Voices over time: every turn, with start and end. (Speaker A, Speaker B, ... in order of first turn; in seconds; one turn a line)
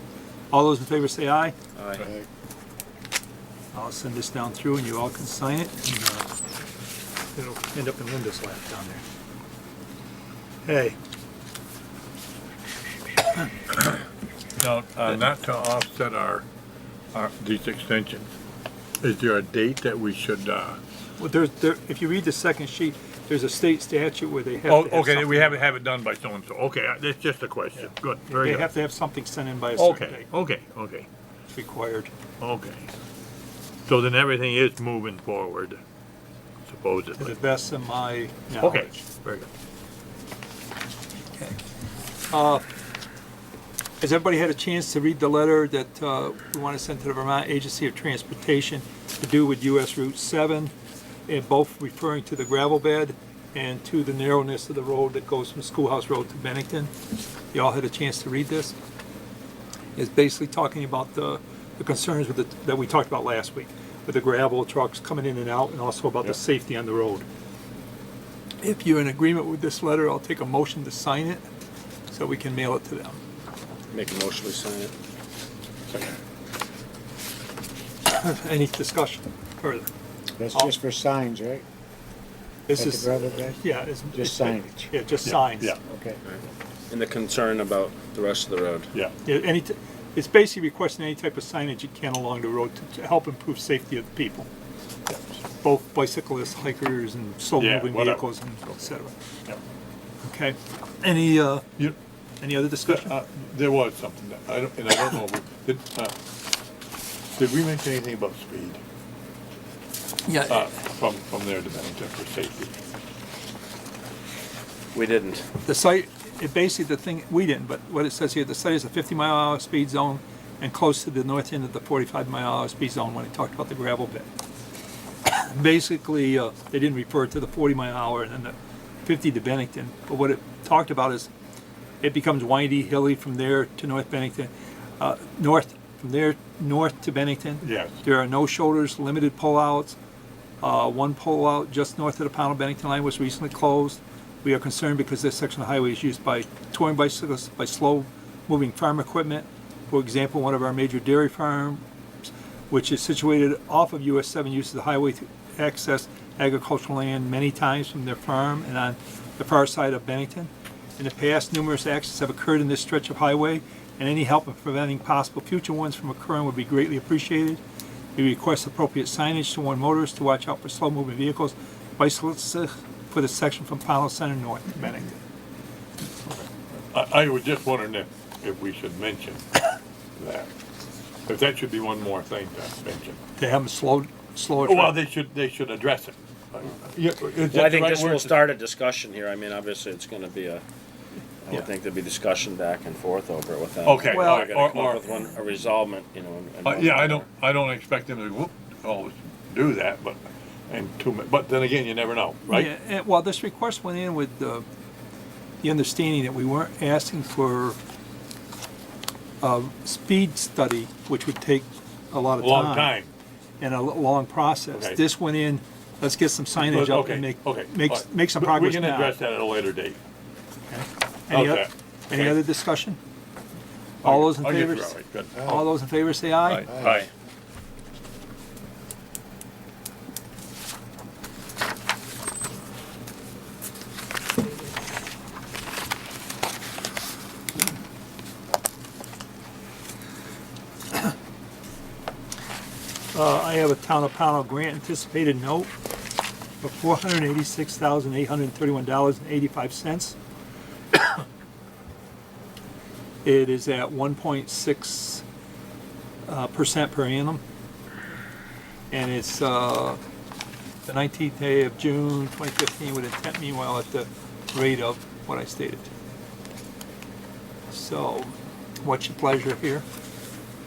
Speaker A: 0.5-1.6
Speaker B: 1.8-2.1
Speaker A: 3.7-6.3
Speaker A: 7.3-9.0
Speaker A: 10.7-11.0
Speaker C: 14.6-16.5
Speaker C: 17.1-18.3
Speaker C: 19.0-20.8
Speaker A: 21.2-25.6
Speaker C: 24.7-28.7
Speaker A: 27.8-30.3
Speaker C: 29.8-31.1
Speaker A: 31.5-32.1
Speaker C: 32.4-32.9
Speaker C: 33.9-35.8
Speaker C: 36.7-37.3
Speaker A: 37.2-39.4
Speaker C: 38.6-39.4
Speaker A: 41.3-41.6
Speaker A: 42.3-42.6
Speaker A: 44.0-50.7
Speaker A: 51.3-56.9
Speaker A: 57.5-58.8
Speaker A: 60.0-67.3
Speaker A: 68.6-71.4
Speaker A: 72.1-73.2
Speaker B: 73.9-75.0
Speaker C: 75.9-76.2
Speaker A: 78.1-79.9
Speaker D: 80.3-81.7
Speaker A: 82.7-85.8
Speaker D: 82.8-84.9
Speaker C: 85.2-85.8
Speaker D: 85.8-86.2
Speaker B: 86.2-88.9
Speaker A: 89.2-94.5
Speaker A: 95.6-99.1
Speaker C: 97.6-98.2
Speaker A: 100.2-101.7
Speaker A: 102.4-103.1
Speaker C: 102.8-106.2
Speaker C: 107.3-108.8
Speaker A: 110.2-110.7
Speaker C: 110.5-112.7
Speaker B: 114.9-115.5
Speaker A: 115.7-124.3
Speaker A: 125.3-131.3
Speaker A: 132.0-140.0
Speaker C: 137.6-137.9
Speaker A: 140.6-151.8
Speaker A: 152.7-167.6
Speaker A: 168.2-175.2
Speaker C: 176.3-180.5
Speaker C: 181.3-183.2
Speaker A: 183.4-185.0
Speaker C: 184.6-188.4
Speaker B: 187.4-190.6
Speaker B: 191.4-197.3
Speaker C: 193.8-195.1
Speaker A: 194.1-194.6
Speaker C: 196.6-202.7
Speaker A: 202.5-204.7
Speaker A: 205.6-207.8
Speaker A: 209.4-212.9
Speaker C: 212.4-213.1
Speaker A: 213.6-219.2
Speaker C: 214.7-215.0
Speaker C: 216.6-220.0
Speaker A: 220.7-223.0
Speaker C: 221.3-222.4
Speaker C: 224.0-225.6
Speaker A: 224.0-226.8
Speaker C: 226.4-227.1
Speaker D: 226.7-227.0
Speaker A: 243.1-245.7
Speaker A: 246.6-250.2
Speaker A: 250.9-251.2
Speaker A: 253.2-255.2
Speaker A: 256.3-257.4
Speaker A: 258.9-260.0
Speaker A: 260.9-265.9
Speaker A: 267.7-269.9